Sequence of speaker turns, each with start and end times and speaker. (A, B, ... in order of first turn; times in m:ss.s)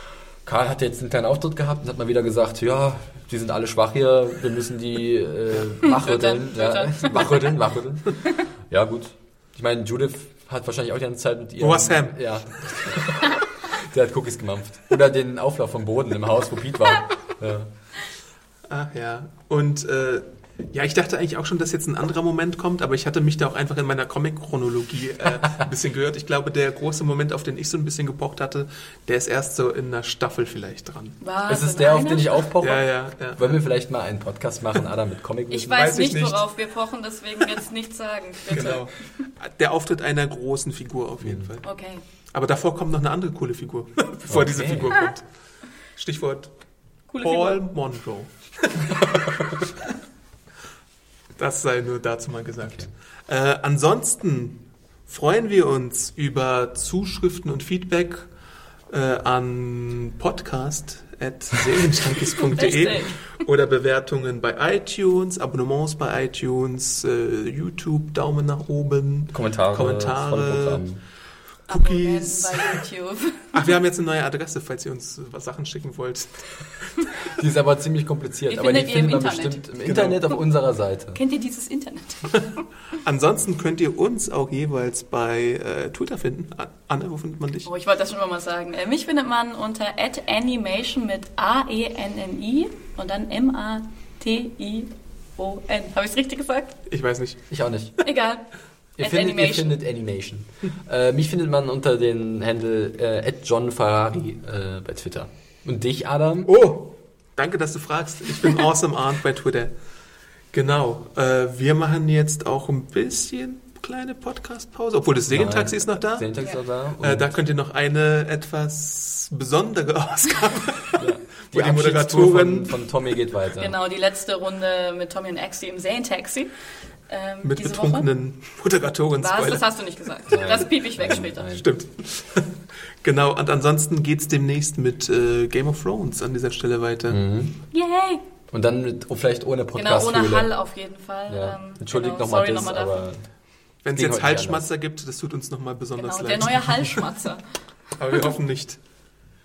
0:00.4-0:17.7 A
0:05.8-0:07.6 B
0:11.6-0:13.0 C
0:18.7-0:31.2 C
0:31.2-0:32.5 B
0:31.5-0:35.9 A
0:32.6-0:33.6 C
0:35.5-0:39.3 B
0:35.8-0:36.4 C
0:38.5-0:41.8 C
0:41.2-0:41.5 A
0:41.6-0:42.0 B
0:42.3-0:49.3 C
0:44.3-0:45.0 A
0:47.1-0:47.6 B
0:51.4-0:58.4 C
0:58.9-1:10.9 C
1:02.5-1:03.2 B
1:09.3-1:11.0 A
1:11.6-1:12.8 C
1:11.7-1:13.5 B
1:13.5-1:17.0 C
1:17.4-1:21.2 A
1:18.5-1:20.0 B
1:19.8-1:20.2 C
1:21.1-1:22.4 B
1:23.0-1:27.7 C
1:27.6-1:36.8 B
1:36.9-1:37.5 C
1:37.5-1:38.1 A
1:38.0-1:39.8 B
1:39.0-1:46.5 A
1:46.4-1:49.7 C
1:50.5-1:56.3 C
1:55.3-1:57.3 A
1:57.0-2:02.8 C
2:01.0-2:03.8 A
2:03.6-2:06.5 B
2:07.1-2:08.1 B
2:07.4-2:10.1 C
2:09.2-2:11.6 B
2:10.3-2:11.7 A
2:11.6-2:17.2 C
2:17.1-2:17.6 A
2:17.7-2:18.2 B
2:18.5-2:20.5 A
2:19.7-2:23.0 B
2:21.3-2:23.3 A
2:23.8-2:26.8 C
2:23.9-2:24.6 A
2:26.0-2:27.4 B
2:28.0-2:28.8 C